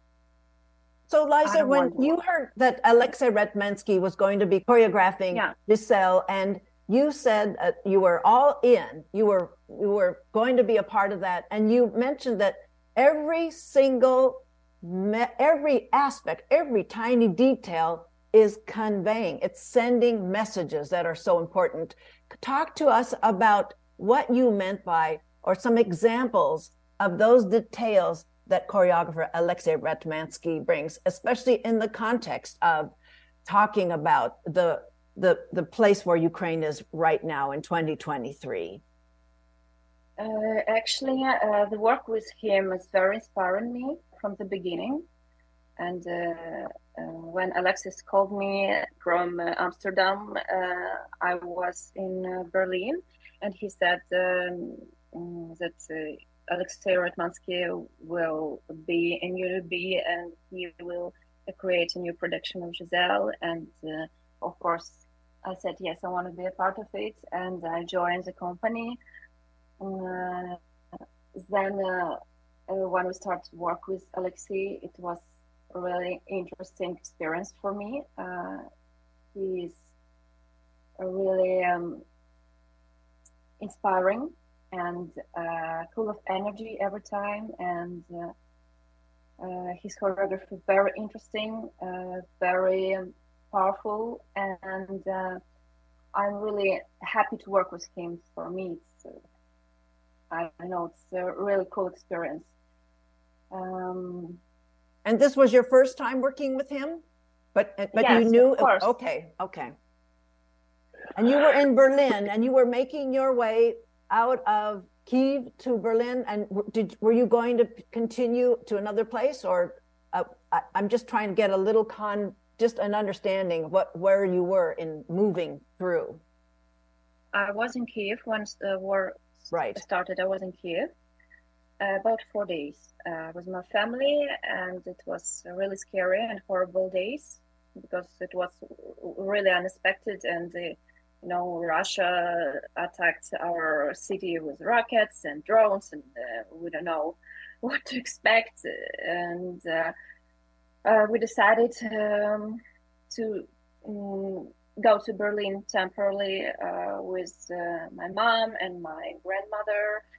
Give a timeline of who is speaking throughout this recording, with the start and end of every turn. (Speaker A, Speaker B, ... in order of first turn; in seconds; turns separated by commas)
Speaker A: 1.1-32.9, Speaker B: 1.4-2.1, Speaker A: 33.4-38.8, Speaker B: 40.2-45.0, Speaker B: 45.8-69.0, Speaker B: 69.8-70.6, Speaker B: 71.3-78.6, Speaker B: 79.3-79.8, Speaker B: 81.0-82.0, Speaker B: 83.6-88.3, Speaker B: 89.4-95.4, Speaker B: 96.1-99.2, Speaker B: 100.3-102.5, Speaker B: 103.5-104.4, Speaker A: 105.0-107.0, Speaker A: 107.5-109.7, Speaker B: 108.0-108.9, Speaker A: 111.1-126.2, Speaker B: 127.3-130.9, Speaker A: 129.5-129.8, Speaker B: 131.8-149.9, Speaker B: 150.8-160.0